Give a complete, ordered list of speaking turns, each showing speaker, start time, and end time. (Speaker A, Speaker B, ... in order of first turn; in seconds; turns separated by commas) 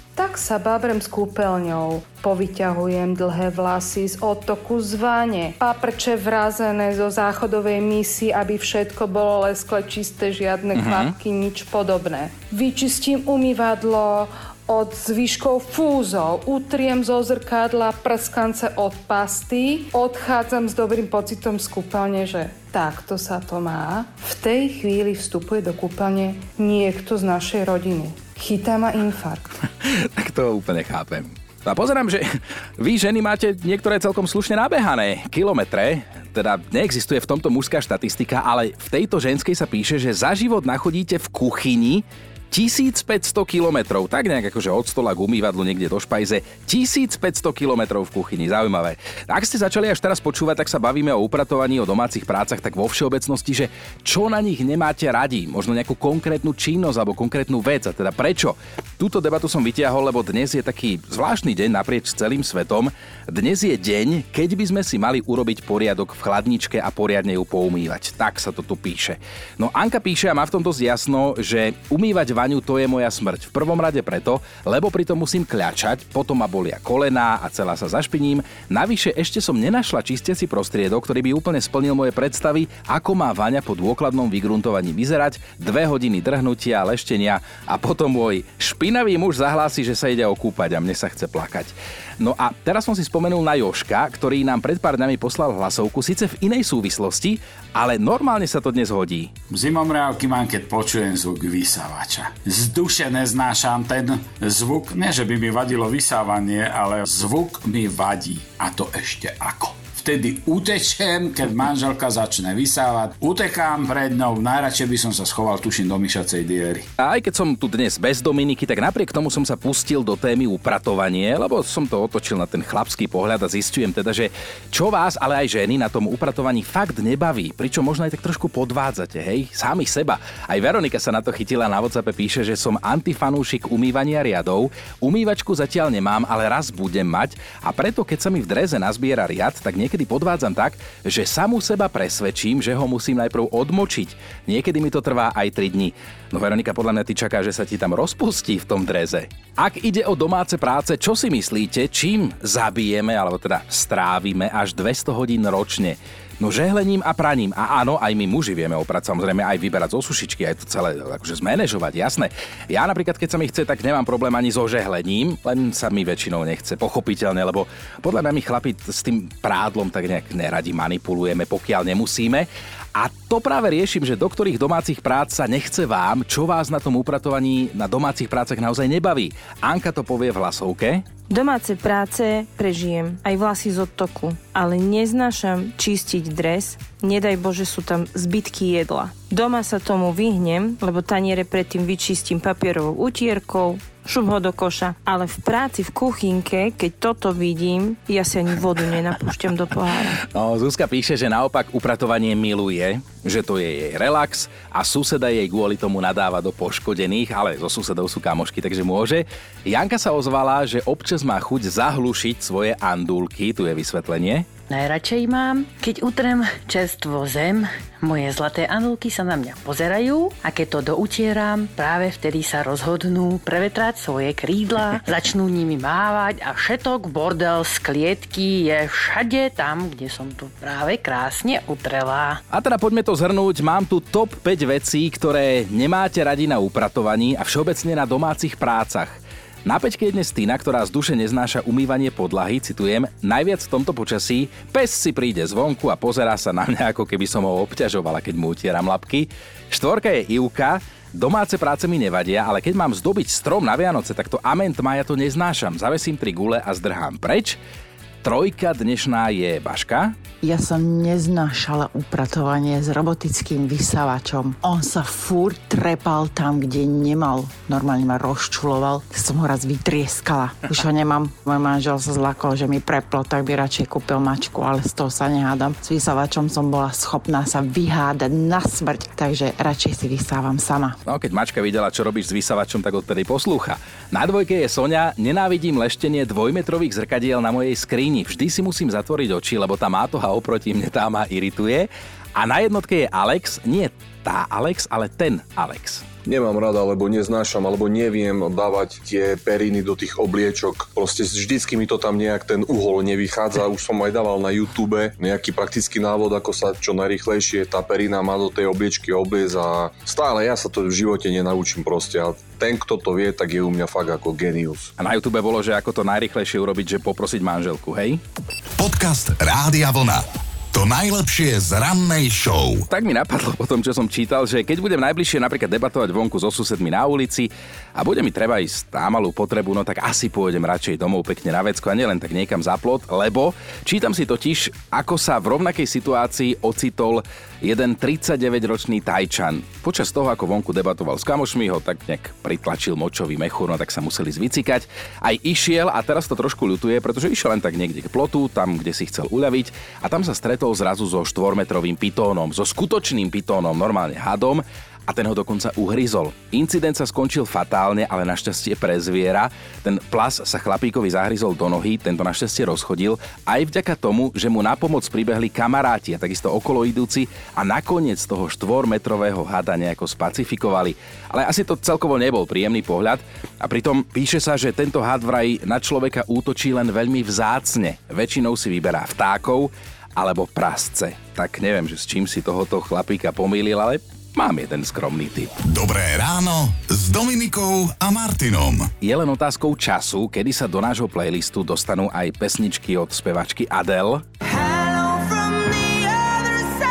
Speaker A: 0.1-29.5, Speaker B: 10.7-11.1, Speaker B: 29.8-99.3, Speaker C: 99.5-116.8, Speaker B: 117.0-181.0, Speaker D: 181.3-200.2, Speaker B: 200.2-214.5, Speaker E: 214.7-232.4, Speaker B: 232.5-257.6, Speaker B: 258.2-260.1, Speaker F: 260.4-281.0, Speaker B: 281.1-296.1, Speaker G: 296.2-314.9, Speaker B: 315.0-318.2, Speaker H: 318.8-322.9, Speaker B: 322.9-385.5, Speaker H: 385.6-388.9, Speaker B: 389.0-394.2